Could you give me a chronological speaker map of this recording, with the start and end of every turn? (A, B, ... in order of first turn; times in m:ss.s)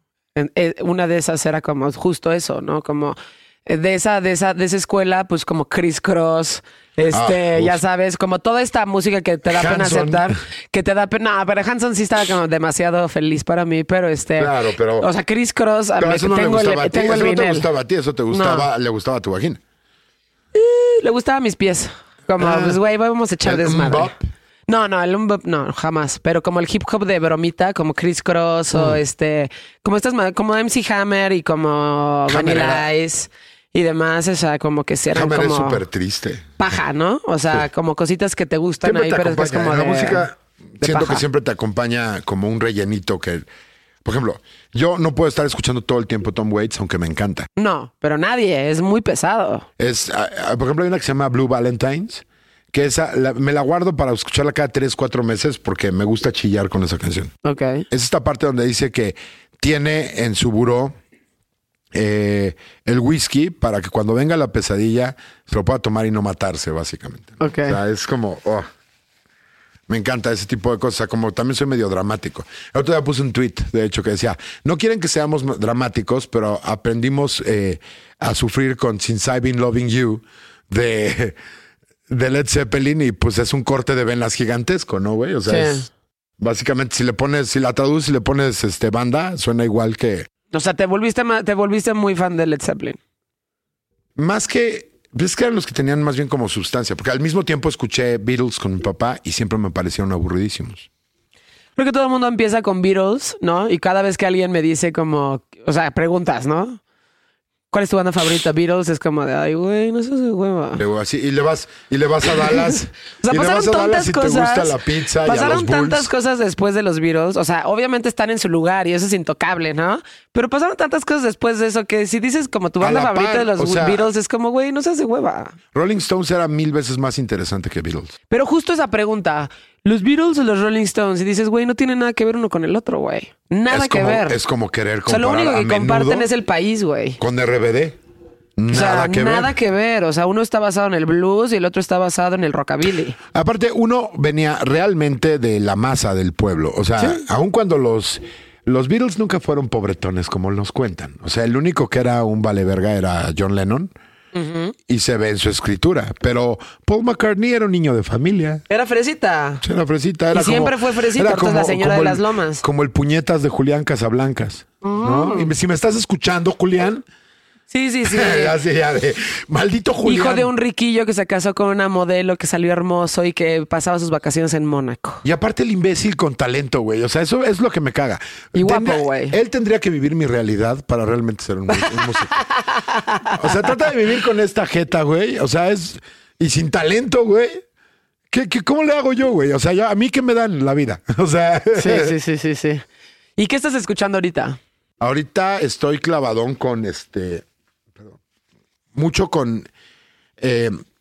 0:00.3-0:17.7 A
0:07.1-0:07.8 B
0:09.5-0:10.4 B
0:14.4-0:15.1 B
0:16.0-0:19.6 B
0:18.3-0:18.6 A
0:20.5-0:24.1 A
0:22.4-0:22.8 B
0:23.4-0:24.2 B
0:24.7-0:35.8 A
0:28.7-0:29.0 B
0:32.3-0:32.9 B
0:35.1-0:36.6 B
0:36.6-0:40.3 A
0:38.8-0:43.5 B
0:40.8-0:41.2 A
0:44.0-0:47.5 B
0:47.6-0:49.7 A
0:49.8-0:57.3 B
0:57.4-0:57.8 A
0:57.9-1:01.0 B
1:01.9-1:08.6 B
1:07.4-1:07.8 A
1:09.9-1:21.4 B
1:22.1-1:30.3 B
1:25.5-1:25.8 A
1:30.5-1:33.0 A
1:34.2-1:40.9 B
1:41.8-1:46.8 A
1:47.7-1:50.8 A
1:50.8-1:56.1 B
1:53.2-2:05.6 A
2:02.8-2:04.1 B
2:05.7-2:08.1 B
2:08.3-2:14.4 A
2:13.7-2:16.3 B
2:15.1-2:17.2 A
2:17.2-2:18.0 B
2:18.6-2:19.5 B
2:18.7-2:23.2 A
2:23.3-2:33.9 B
2:34.3-2:34.7 A
2:34.9-2:38.6 B
2:38.7-2:39.6 A
2:39.6-2:47.0 B
2:40.3-2:42.6 A
2:44.8-2:45.5 A
2:47.7-2:48.6 A
2:48.0-2:50.5 B
2:50.0-2:55.2 A
2:55.2-3:02.4 B
2:58.6-2:59.4 A
3:01.7-3:03.8 A
3:03.4-3:07.6 B
3:08.3-3:12.1 B
3:11.7-3:12.8 A
3:13.4-3:14.6 A
3:15.0-3:17.4 B
3:18.9-3:19.7 B
3:20.4-3:20.8 B